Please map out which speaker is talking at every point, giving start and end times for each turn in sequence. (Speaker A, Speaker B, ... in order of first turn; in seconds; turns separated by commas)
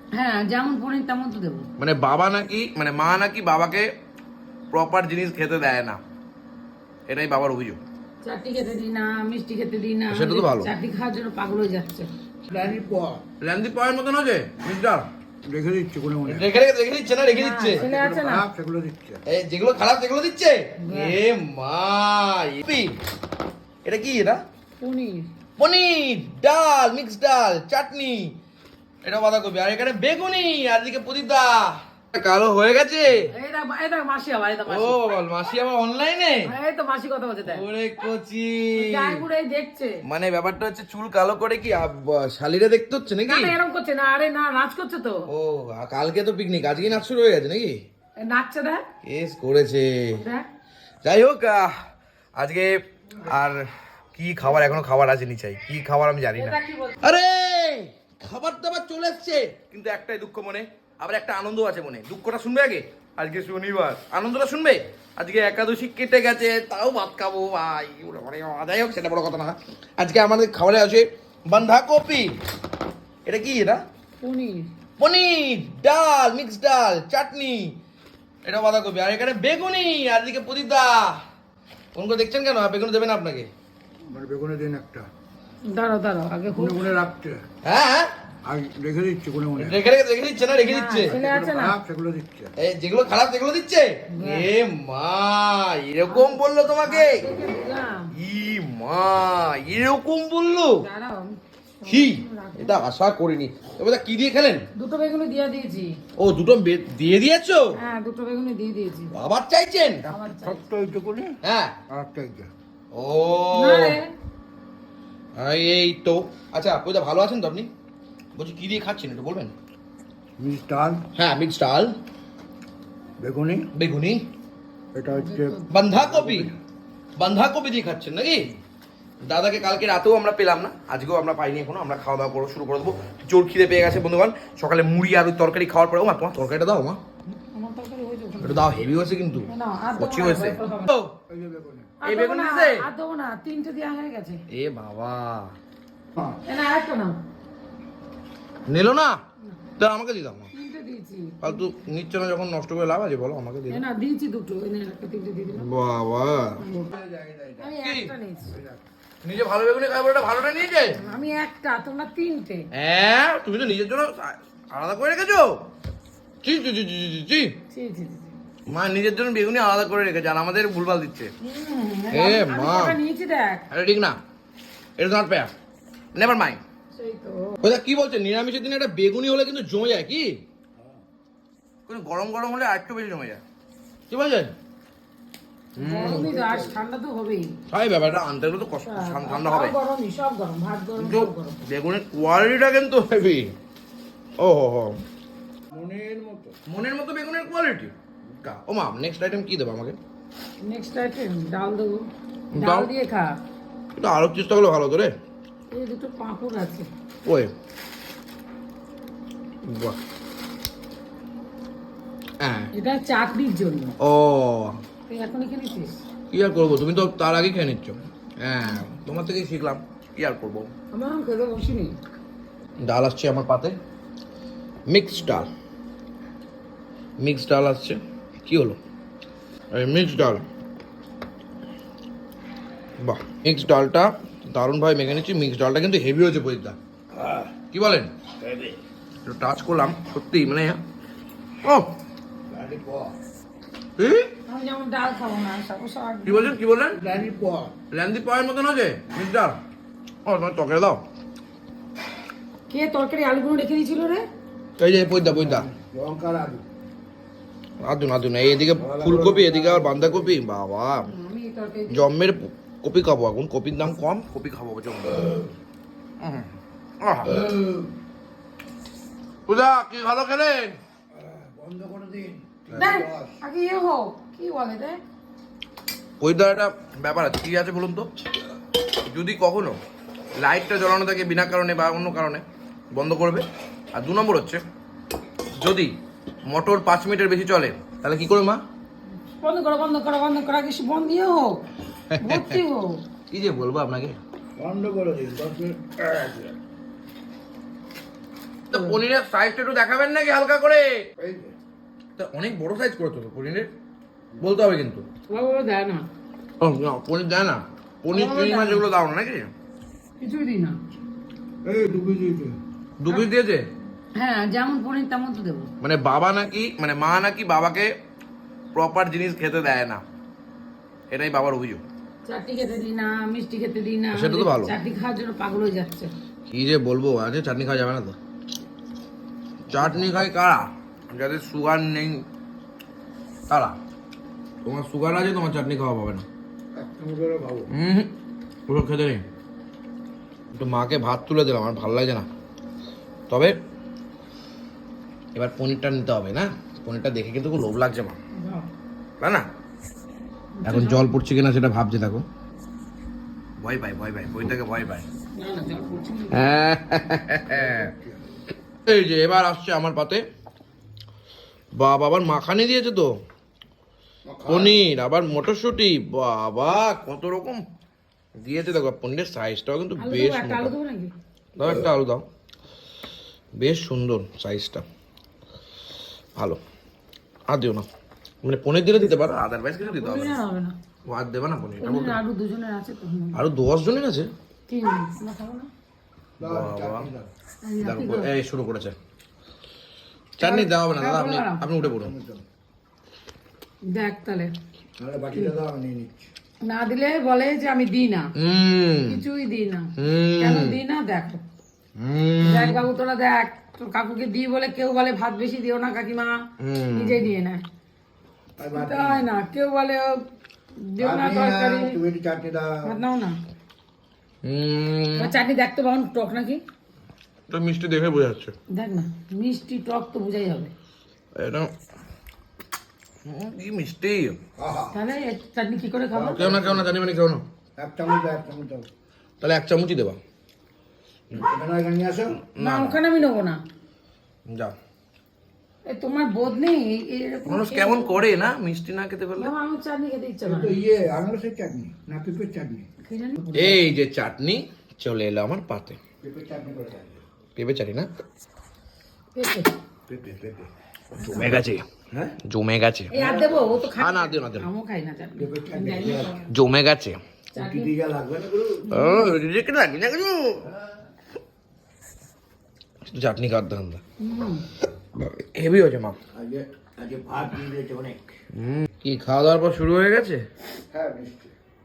Speaker A: 0.1-1.7, Speaker B: 1.8-3.9, Speaker B: 4.7-6.0, Speaker B: 7.1-7.8, Speaker A: 8.2-12.1, Speaker B: 10.1-10.7, Speaker C: 12.5-13.2, Speaker B: 13.4-15.1, Speaker C: 15.5-16.5, Speaker B: 16.3-17.9, Speaker A: 17.3-18.5, Speaker C: 17.8-19.2, Speaker B: 19.3-22.9, Speaker A: 20.9-21.2, Speaker B: 23.8-24.4, Speaker A: 24.8-25.3, Speaker B: 25.6-28.4, Speaker B: 29.0-33.3, Speaker A: 33.3-35.1, Speaker B: 34.7-36.5, Speaker A: 36.5-37.7, Speaker B: 37.4-39.2, Speaker A: 38.8-40.0, Speaker B: 40.0-43.6, Speaker A: 43.2-45.3, Speaker B: 45.3-47.8, Speaker A: 48.2-48.8, Speaker B: 49.0-50.2, Speaker A: 50.1-50.5, Speaker B: 51.0-51.7, Speaker B: 52.4-72.3, Speaker A: 56.4-57.0, Speaker B: 73.3-73.8, Speaker A: 74.2-74.7, Speaker B: 75.0-77.8, Speaker B: 78.4-81.2, Speaker B: 82.0-83.5, Speaker C: 84.1-85.1, Speaker A: 85.7-87.0, Speaker C: 86.5-87.4, Speaker B: 87.7-88.1, Speaker C: 88.5-89.8, Speaker B: 89.6-91.1, Speaker A: 90.6-91.8, Speaker C: 91.1-92.5, Speaker B: 92.6-97.2, Speaker A: 94.2-94.5, Speaker A: 96.1-98.1, Speaker B: 98.1-100.8, Speaker A: 100.8-102.8, Speaker B: 101.9-104.7, Speaker A: 104.8-106.0, Speaker B: 106.2-107.8, Speaker A: 107.8-109.1, Speaker B: 109.1-110.1, Speaker A: 110.1-110.6, Speaker C: 110.3-111.4, Speaker B: 111.4-111.8, Speaker C: 111.9-112.5, Speaker B: 112.9-114.0, Speaker A: 113.5-114.1, Speaker B: 115.4-117.7, Speaker B: 118.3-119.5, Speaker C: 120.4-121.0, Speaker B: 121.2-121.9, Speaker C: 123.2-123.7, Speaker B: 123.8-124.2, Speaker C: 124.9-126.6, Speaker A: 125.1-125.7, Speaker B: 125.7-126.5, Speaker B: 127.2-128.5, Speaker B: 129.3-137.0, Speaker A: 137.5-138.7, Speaker B: 138.4-141.1, Speaker A: 139.5-140.9, Speaker C: 141.3-141.9, Speaker A: 142.0-144.4, Speaker B: 142.0-142.9, Speaker B: 144.5-145.6, Speaker A: 146.5-147.2, Speaker B: 148.7-149.2, Speaker B: 149.8-150.5, Speaker A: 150.5-151.6, Speaker B: 151.4-153.8, Speaker A: 153.7-155.7, Speaker B: 155.5-156.6, Speaker A: 156.6-156.9, Speaker C: 156.6-157.8, Speaker A: 157.6-158.5, Speaker B: 157.8-158.1, Speaker C: 158.5-158.8, Speaker B: 159.2-161.0, Speaker A: 161.0-162.7, Speaker B: 162.7-165.6, Speaker B: 166.4-167.6, Speaker A: 167.7-168.3, Speaker B: 168.7-171.3, Speaker A: 171.4-173.6, Speaker B: 172.1-173.0, Speaker B: 173.7-174.2, Speaker B: 175.0-175.5, Speaker B: 176.2-176.6, Speaker A: 176.9-177.6, Speaker B: 177.6-180.4, Speaker B: 181.9-183.4, Speaker B: 184.1-184.5, Speaker B: 185.8-186.3, Speaker A: 185.8-187.6, Speaker C: 185.8-186.8, Speaker B: 187.7-189.8, Speaker A: 188.8-191.6, Speaker B: 191.0-193.5, Speaker B: 194.4-195.0, Speaker C: 195.7-196.6, Speaker B: 196.7-200.0, Speaker A: 200.6-203.3, Speaker B: 202.5-202.9, Speaker B: 204.0-205.1, Speaker A: 205.7-206.9, Speaker B: 207.2-207.5, Speaker B: 209.7-210.0, Speaker B: 212.4-212.7, Speaker A: 212.7-214.0, Speaker B: 214.0-214.8, Speaker A: 215.1-216.0, Speaker B: 216.3-220.7, Speaker A: 220.9-221.9, Speaker B: 222.8-223.8, Speaker B: 224.9-225.5, Speaker B: 227.2-228.8, Speaker B: 229.7-230.4, Speaker B: 233.0-236.8, Speaker C: 237.2-237.5, Speaker B: 237.7-238.1, Speaker C: 238.4-238.8, Speaker B: 239.2-240.8, Speaker B: 241.6-241.9, Speaker C: 242.5-243.2, Speaker B: 244.0-244.3, Speaker A: 244.5-246.5, Speaker B: 246.2-247.0, Speaker C: 246.9-247.7, Speaker B: 247.9-249.6, Speaker B: 250.2-251.0, Speaker A: 252.7-254.3, Speaker B: 254.8-255.7, Speaker C: 255.2-256.7, Speaker B: 257.8-261.1, Speaker C: 258.8-260.4, Speaker A: 261.1-262.1, Speaker B: 261.9-265.5, Speaker B: 266.2-266.5, Speaker B: 267.0-267.5, Speaker C: 267.3-267.9, Speaker B: 269.5-270.8, Speaker C: 271.1-273.4, Speaker B: 272.7-272.9, Speaker A: 272.8-275.0, Speaker B: 276.2-278.1, Speaker B: 279.1-279.8, Speaker B: 280.4-284.6, Speaker B: 285.6-285.9, Speaker B: 286.5-288.6, Speaker A: 289.4-291.6, Speaker B: 292.1-292.6, Speaker A: 292.2-293.0, Speaker B: 293.3-294.2, Speaker C: 294.6-296.5, Speaker B: 298.7-301.1, Speaker A: 298.7-299.0, Speaker C: 301.2-301.6, Speaker B: 302.2-303.7, Speaker B: 304.4-305.1, Speaker A: 305.3-306.1, Speaker B: 306.6-309.5, Speaker A: 308.1-308.9, Speaker A: 310.2-310.8, Speaker C: 311.6-312.6, Speaker B: 313.0-313.6, Speaker A: 314.2-315.7, Speaker B: 315.8-317.9, Speaker B: 318.7-320.0, Speaker B: 321.1-321.8, Speaker A: 322.3-326.1, Speaker B: 324.1-324.7, Speaker B: 326.5-328.2, Speaker B: 329.7-332.2, Speaker B: 333.5-333.8, Speaker B: 334.6-336.3, Speaker C: 336.8-337.7, Speaker B: 337.7-338.1, Speaker B: 338.7-339.2, Speaker B: 340.5-342.3, Speaker B: 343.3-343.6, Speaker B: 345.4-348.2, Speaker A: 348.4-348.7, Speaker A: 350.6-351.1, Speaker B: 350.7-352.2, Speaker B: 353.6-355.1, Speaker A: 355.4-356.6, Speaker B: 356.3-357.9, Speaker C: 357.5-358.2, Speaker B: 358.9-360.2, Speaker B: 361.8-363.1, Speaker C: 364.3-364.8, Speaker B: 364.5-367.6, Speaker B: 368.4-370.7, Speaker A: 370.0-371.1, Speaker B: 371.6-372.2, Speaker B: 373.6-374.9, Speaker B: 377.5-377.9, Speaker B: 378.4-380.4, Speaker A: 379.8-380.7, Speaker B: 381.1-382.2, Speaker A: 381.8-383.4, Speaker B: 383.3-384.3, Speaker A: 384.7-385.7, Speaker B: 386.4-387.1, Speaker C: 386.4-387.3, Speaker A: 387.6-388.3, Speaker B: 387.8-389.0, Speaker A: 390.4-391.6, Speaker B: 390.4-392.1, Speaker C: 391.8-392.4, Speaker A: 393.9-394.5, Speaker C: 395.0-396.3, Speaker A: 396.6-398.3, Speaker B: 398.4-399.2, Speaker A: 399.1-401.4, Speaker B: 400.0-400.8, Speaker B: 402.0-402.8, Speaker A: 402.4-406.4, Speaker B: 406.6-407.2, Speaker A: 406.9-407.6, Speaker C: 408.6-409.3, Speaker A: 408.7-410.2, Speaker A: 410.8-412.0, Speaker C: 411.0-413.0, Speaker A: 412.8-413.4, Speaker B: 414.4-415.4, Speaker A: 415.2-416.6, Speaker B: 417.5-418.6, Speaker A: 418.7-420.7, Speaker B: 421.4-421.7, Speaker B: 423.2-424.4, Speaker C: 424.6-425.0, Speaker A: 424.9-426.4, Speaker C: 426.1-426.9, Speaker B: 426.3-427.4, Speaker C: 427.8-428.9, Speaker B: 429.4-430.2, Speaker C: 431.3-432.4, Speaker B: 432.6-433.0, Speaker A: 432.6-433.6, Speaker B: 434.5-434.7, Speaker A: 435.9-438.2, Speaker B: 437.4-439.5, Speaker A: 439.4-440.8, Speaker C: 440.5-442.9, Speaker A: 443.1-443.9, Speaker B: 443.5-446.0, Speaker C: 446.2-447.2, Speaker B: 447.6-448.1, Speaker A: 449.4-449.7, Speaker C: 450.1-451.6, Speaker B: 451.2-451.9, Speaker B: 452.4-453.2, Speaker A: 453.1-456.5, Speaker B: 454.0-454.7, Speaker C: 455.4-456.4, Speaker B: 456.5-457.2, Speaker A: 457.6-457.9, Speaker C: 457.6-458.9, Speaker A: 458.9-459.4, Speaker B: 458.9-460.7, Speaker B: 463.1-464.0, Speaker A: 464.2-464.6, Speaker B: 465.1-466.2, Speaker C: 466.3-468.4, Speaker B: 468.5-470.4, Speaker C: 470.9-471.5